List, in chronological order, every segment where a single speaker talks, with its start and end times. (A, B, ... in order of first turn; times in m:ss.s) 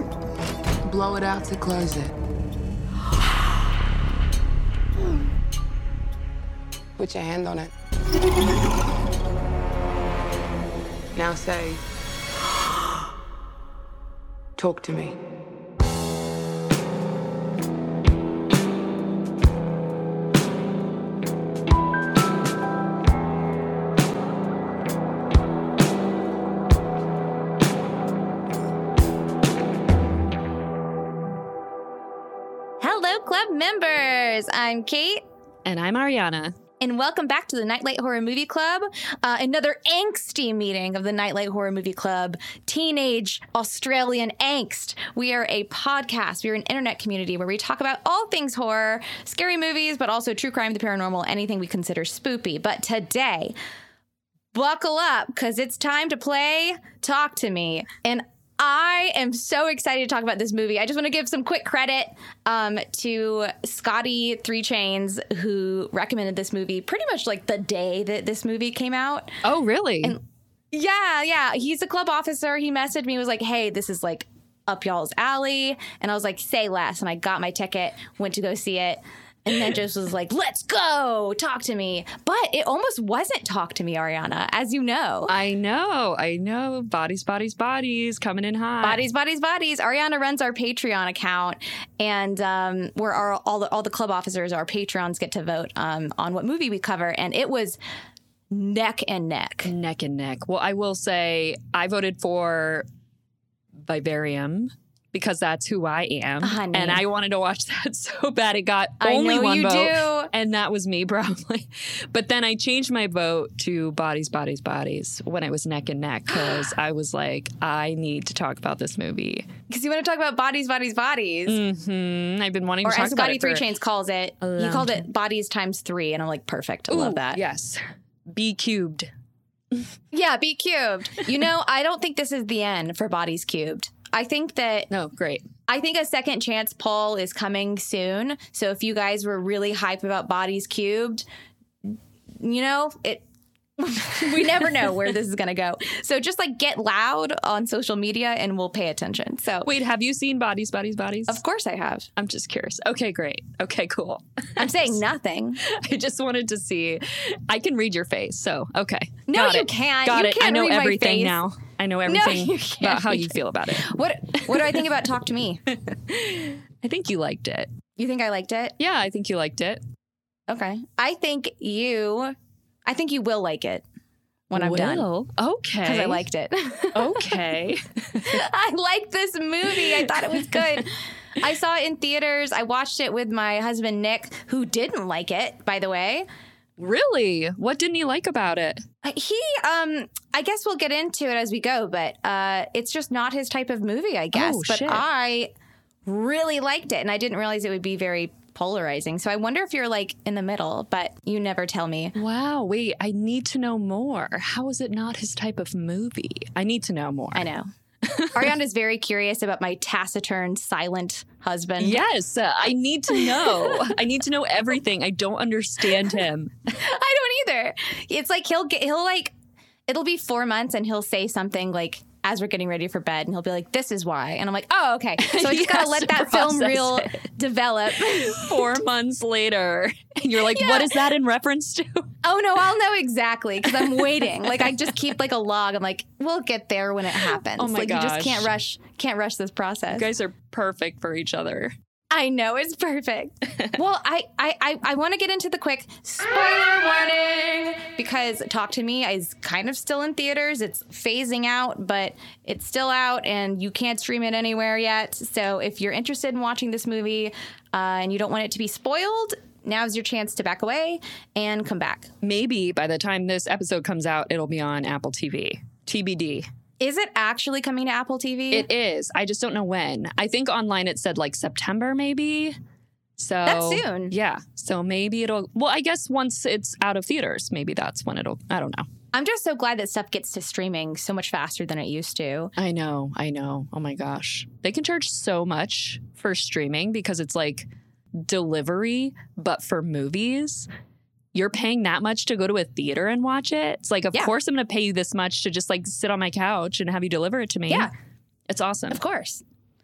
0:00.8-0:02.1 A
0:07.0-0:07.7 A
0:11.1-0:11.8 A
0:14.6-0:15.1 A
0:32.8-0:35.2 B
0:35.6-0:36.6 C
0:36.8-0:53.5 B
0:54.5-1:09.4 B
1:09.4-1:10.2 C
1:10.7-1:25.3 B
1:25.3-1:29.0 C
1:28.8-1:37.8 B
1:38.5-1:39.7 B
1:39.6-1:42.9 C
1:43.8-1:59.5 C
1:46.4-1:47.0 B
1:49.0-1:50.3 B
1:59.7-2:01.6 B
2:01.5-2:03.6 C
2:02.8-2:07.4 B
2:04.4-2:05.0 C
2:06.9-2:09.1 C
2:10.1-2:14.9 B
2:14.9-2:15.5 C
2:15.7-2:21.2 B
2:21.9-2:23.2 B
2:23.8-2:29.7 B
2:29.6-2:31.4 C
2:31.3-2:32.1 B
2:32.2-2:35.0 C
2:34.6-2:35.6 B
2:35.6-2:44.8 C
2:39.3-2:41.4 B
2:42.0-2:45.6 B
2:45.7-2:47.7 C
2:48.0-2:48.8 B
2:48.8-2:49.8 C
2:50.5-2:52.3 B
2:52.8-2:53.8 B
2:54.5-2:55.1 B
2:54.5-2:56.2 C
2:55.8-2:57.4 B
2:56.9-2:58.4 C
2:58.2-3:06.2 B
2:59.7-3:00.8 C
3:06.8-3:08.8 C
3:09.0-3:15.5 B
3:14.3-3:15.0 C
3:16.0-3:22.1 B
3:22.1-3:27.4 C
3:27.3-3:27.7 B
3:28.0-3:28.5 C
3:28.3-3:32.0 B
3:31.8-3:36.6 C
3:33.1-3:34.0 B
3:36.7-3:39.3 B
3:39.9-3:48.8 B
3:45.2-3:47.1 C
3:47.9-3:52.1 C
3:50.4-3:51.0 B
3:52.2-4:00.1 B
3:53.6-3:54.9 C
3:57.3-3:58.5 C
3:59.9-4:01.7 C
4:02.1-4:22.1 B
4:22.2-4:26.5 C
4:26.8-4:28.7 B
4:28.5-4:32.6 C
4:33.2-4:38.9 C
4:33.4-4:34.1 B
4:39.1-4:42.5 B
4:42.6-4:50.7 C
4:51.3-4:57.9 C
4:58.5-4:59.0 C
4:58.9-4:59.4 B